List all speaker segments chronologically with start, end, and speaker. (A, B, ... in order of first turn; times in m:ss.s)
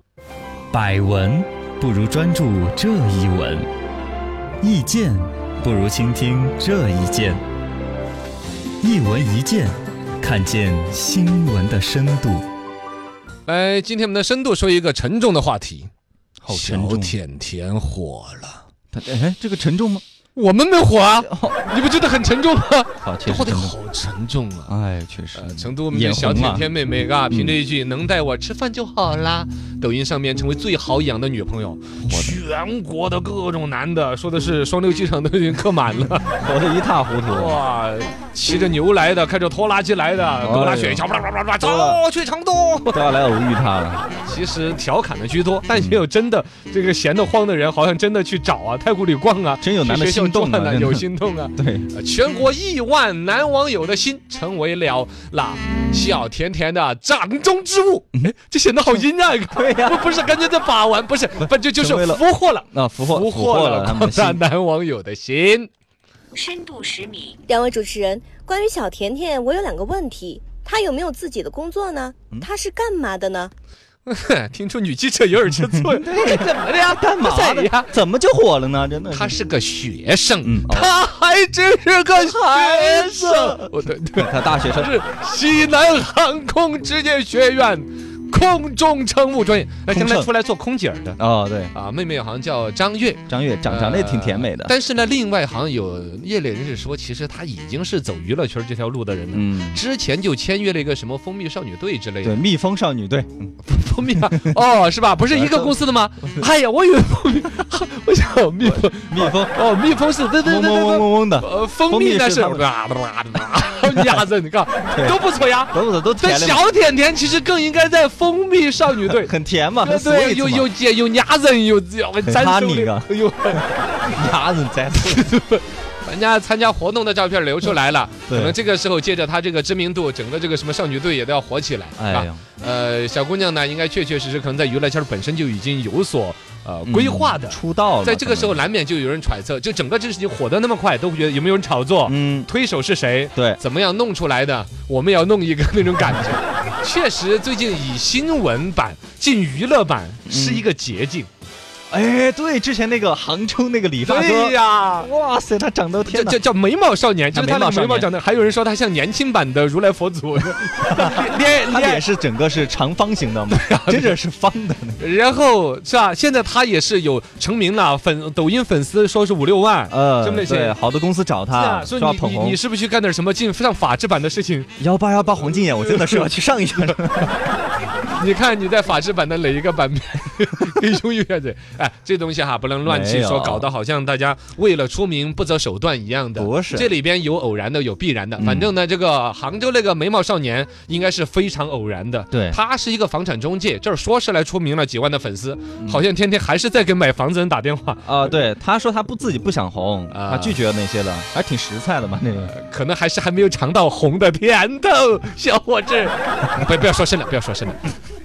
0:00.7-0:03.6 A
0:04.6-0:07.4 A
0:08.8-0:12.5 A
0:13.4-0:15.9 B
0:16.4-0:17.2 A
0:16.5-0:18.6 B
0:18.9-0:20.0 A
0:20.3-0:24.7 B
0:21.2-0:21.6 A
0:23.0-0:23.7 A
0:24.7-0:26.7 A
0:25.3-0:36.3 B
0:27.3-0:27.5 A
0:32.1-0:32.4 A
0:36.2-0:37.6 A
0:37.3-0:43.0 B
0:40.4-0:41.0 A
0:41.6-0:42.0 A
0:42.9-0:44.1 A
0:44.2-1:05.7 B
0:45.7-0:46.1 A
0:49.6-0:51.9 A
0:59.5-1:00.1 A
1:01.4-1:04.4 A
1:06.4-1:13.5 C
1:14.0-1:17.9 B
1:15.7-1:19.3 A
1:19.1-1:31.2 B
1:20.4-1:20.9 A
1:22.1-1:24.9 A
1:29.9-1:30.3 A
1:31.2-1:31.7 A
1:31.7-1:42.4 B
1:33.3-1:34.7 A
1:39.3-1:39.8 A
1:42.2-1:43.6 A
1:43.6-1:59.3 B
1:44.1-1:44.6 A
1:45.3-1:46.5 A
1:48.6-1:49.6 A
1:50.4-1:52.7 A
1:53.9-1:54.2 A
1:54.9-1:55.2 A
1:55.7-1:56.6 A
1:59.0-2:00.7 A
1:59.8-2:03.7 B
2:02.2-2:03.1 A
2:04.0-2:05.3 A
2:04.9-2:31.3 B
2:08.3-2:08.6 A
2:12.0-2:12.4 A
2:16.8-2:18.6 A
2:22.0-2:22.5 A
2:23.3-2:23.6 A
2:30.2-2:30.6 A
2:31.9-2:36.4 A
2:34.0-2:35.1 B
2:36.0-2:42.0 B
2:37.3-2:38.1 A
2:40.8-2:45.0 A
2:43.5-2:44.1 B
2:45.0-2:50.7 B
2:49.9-2:52.6 A
2:51.5-2:54.7 B
2:54.8-2:57.4 A
2:55.5-2:56.3 B
2:58.1-3:18.1 B
3:02.8-3:03.7 A
3:06.4-3:06.9 A
3:08.4-3:08.7 A
3:12.3-3:12.6 A
3:18.0-3:22.5 A
3:20.1-3:20.6 B
3:22.5-3:27.8 B